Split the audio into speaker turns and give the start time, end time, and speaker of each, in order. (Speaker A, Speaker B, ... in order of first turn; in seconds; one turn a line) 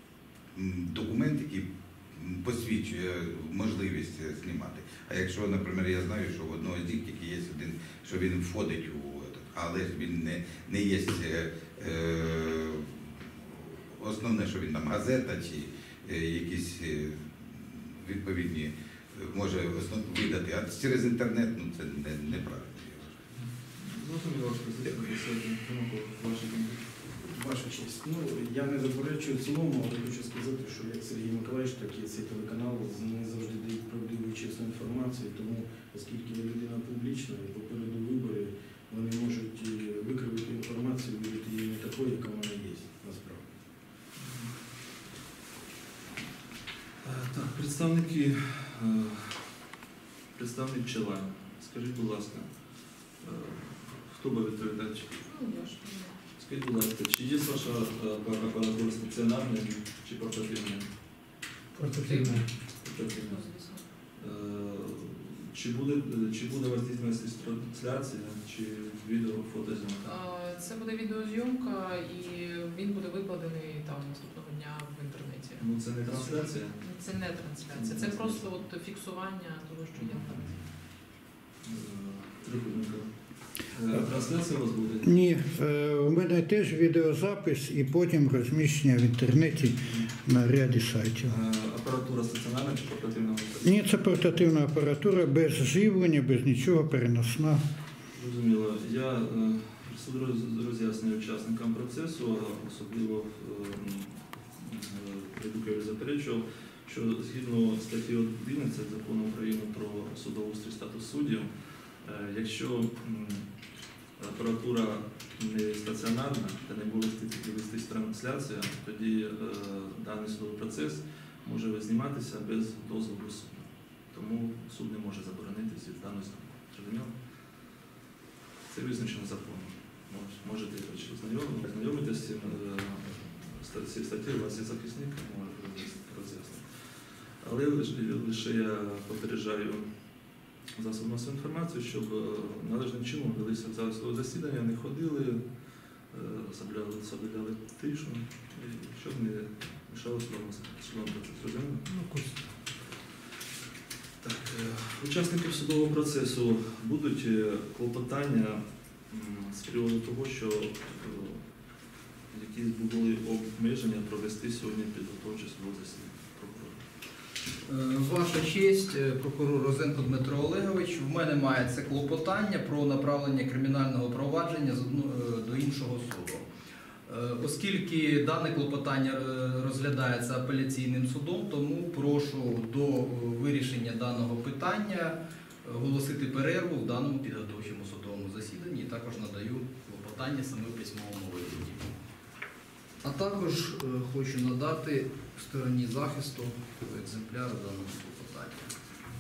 Speaker A: 0.5-23.2
Speaker B: 23.3-26.8
Speaker A: 24.9-25.1
Speaker C: 27.2-43.4
Speaker B: 44.2-44.6
Speaker B: 47.0-49.6
Speaker B: 50.4-52.6
Speaker B: 53.2-55.1
Speaker D: 55.2-56.2
Speaker B: 56.4-60.9
Speaker E: 61.8-62.3
Speaker D: 61.8-62.4
Speaker B: 62.8-63.5
Speaker D: 63.0-63.8
Speaker B: 64.2-70.2
Speaker D: 70.0-80.5
Speaker B: 75.6-78.6
Speaker C: 80.3-80.6
Speaker B: 81.6-85.2
Speaker E: 85.0-89.6
Speaker B: 89.8-90.1
Speaker B: 91.2-94.2
Speaker E: 93.6-97.5
Speaker B: 98.1-111.5
Speaker B: 112.0-113.5
Speaker B: 114.2-127.1
Speaker B: 128.7-139.8
Speaker B: 140.8-145.4
Speaker B: 146.1-151.9
Speaker E: 151.9-152.2
Speaker B: 154.2-161.4
Speaker B: 162.3-166.8
Speaker F: 167.6-176.5
Speaker F: 177.1-191.9
Speaker F: 193.0-198.7